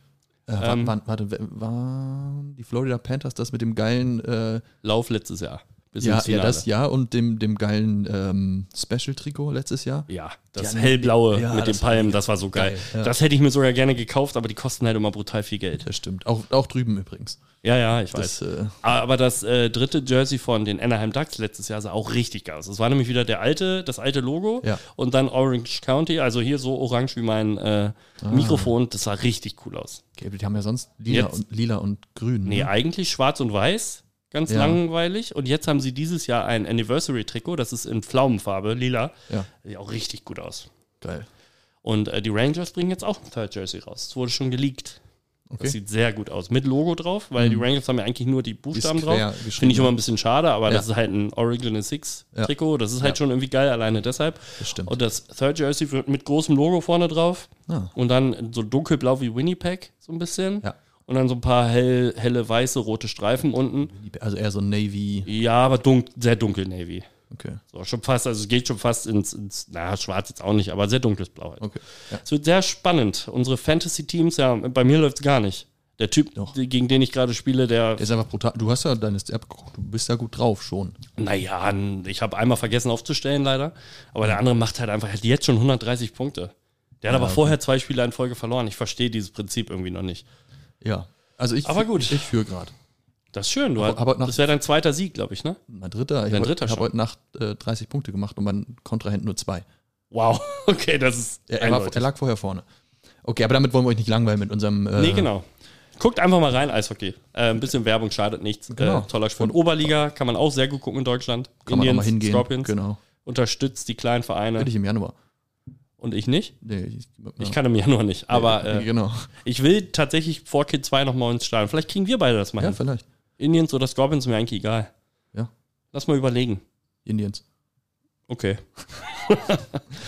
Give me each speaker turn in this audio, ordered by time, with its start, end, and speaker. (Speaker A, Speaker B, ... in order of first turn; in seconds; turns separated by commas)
Speaker A: 0.5-4.6, Speaker B: 0.6-0.9, Speaker B: 4.8-6.6, Speaker A: 6.0-13.1, Speaker B: 10.1-15.9, Speaker A: 15.8-17.4, Speaker B: 17.6-30.0, Speaker A: 18.1-18.8, Speaker A: 28.2-28.7, Speaker A: 30.2-32.7, Speaker B: 31.1-31.4, Speaker B: 32.4-40.7, Speaker A: 34.5-34.8, Speaker A: 41.0-41.3, Speaker B: 41.8-45.0, Speaker B: 45.6-63.9, Speaker A: 47.4-47.6, Speaker A: 48.7-49.9, Speaker A: 52.3-53.2, Speaker A: 54.6-55.0, Speaker A: 57.7-57.9, Speaker A: 63.9-65.3, Speaker B: 65.2-67.0, Speaker A: 67.3-67.6, Speaker B: 67.7-78.1, Speaker A: 71.6-72.2, Speaker A: 78.0-81.0, Speaker B: 81.2-90.2, Speaker A: 87.1-87.5, Speaker A: 90.8-92.7, Speaker B: 91.6-92.3, Speaker B: 93.3-95.6, Speaker A: 93.8-94.4, Speaker A: 95.7-99.6, Speaker B: 96.3-96.9, Speaker B: 100.1-102.1, Speaker A: 101.5-102.6, Speaker A: 103.2-105.3, Speaker B: 105.0-105.5, Speaker B: 106.0-114.7, Speaker A: 108.7-109.8, Speaker A: 111.7-113.0, Speaker A: 114.6-115.1, Speaker B: 116.0-116.5, Speaker A: 116.6-117.6, Speaker B: 117.4-118.9, Speaker A: 118.3-119.3, Speaker B: 119.4-122.8, Speaker A: 122.6-123.0, Speaker B: 123.4-124.9, Speaker B: 125.9-126.6, Speaker A: 127.0-127.4, Speaker B: 128.3-129.8